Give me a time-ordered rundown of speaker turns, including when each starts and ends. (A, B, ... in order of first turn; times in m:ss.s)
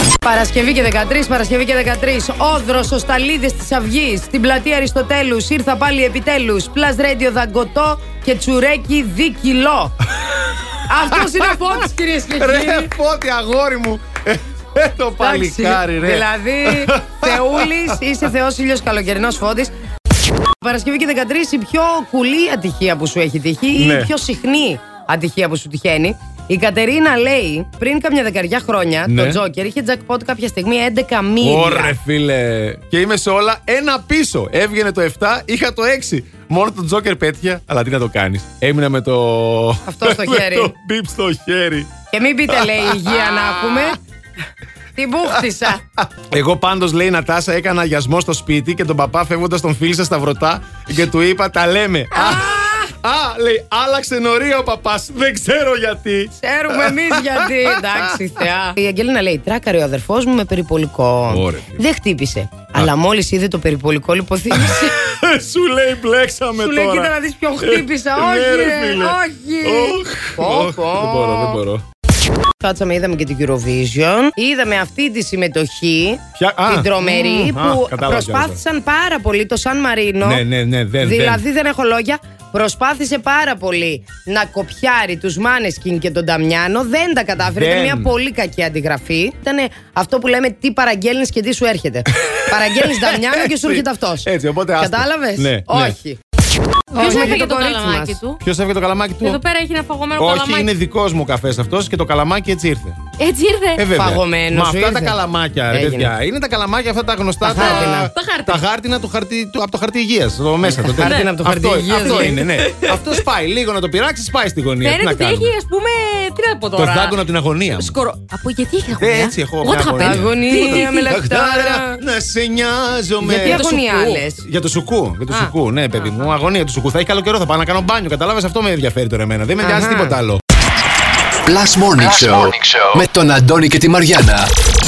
0:00.2-0:10.0 A
0:10.9-0:12.9 A
0:11.2-0:11.5 B
0:12.3-0:18.0 B
0:15.2-0:19.7 A
0:20.6-0:32.0 A
0:23.8-0:24.1 B
0:29.1-0:29.4 B
0:31.4-0:41.9 B
0:39.8-0:40.7 A
0:42.1-0:44.0 A
0:42.5-0:43.9 B
0:45.0-0:45.8 A
0:46.0-0:58.2 B
0:52.1-0:52.9 A
0:56.4-1:04.9 A
1:01.3-1:01.8 B
1:04.5-1:11.8 B
1:06.6-1:11.6 A
1:12.6-1:20.4 A
1:16.4-1:18.6 B
1:20.2-1:21.4 B
1:21.0-1:36.2 A
1:27.4-1:28.1 B
1:32.2-1:36.0 B
1:36.9-1:38.4 C
1:36.9-1:38.2 A
1:37.0-1:37.4 B
1:38.4-1:39.4 B
1:39.2-1:40.7 C
1:40.2-1:43.0 B
1:43.2-1:43.8 C
1:43.8-1:55.5 B
1:43.9-1:45.2 A
1:45.7-1:46.1 A
1:47.4-1:48.6 C
1:47.4-1:48.1 A
1:50.6-1:52.4 A
1:51.0-1:51.3 C
1:51.8-1:53.2 C
1:54.8-2:01.2 C
1:56.7-1:58.0 B
1:59.0-2:03.6 B
2:00.0-2:02.0 A
2:03.2-2:04.4 A
2:03.4-2:04.2 C
2:04.4-2:10.4 B
2:05.3-2:06.3 C
2:09.6-2:10.2 A
2:11.4-2:14.5 D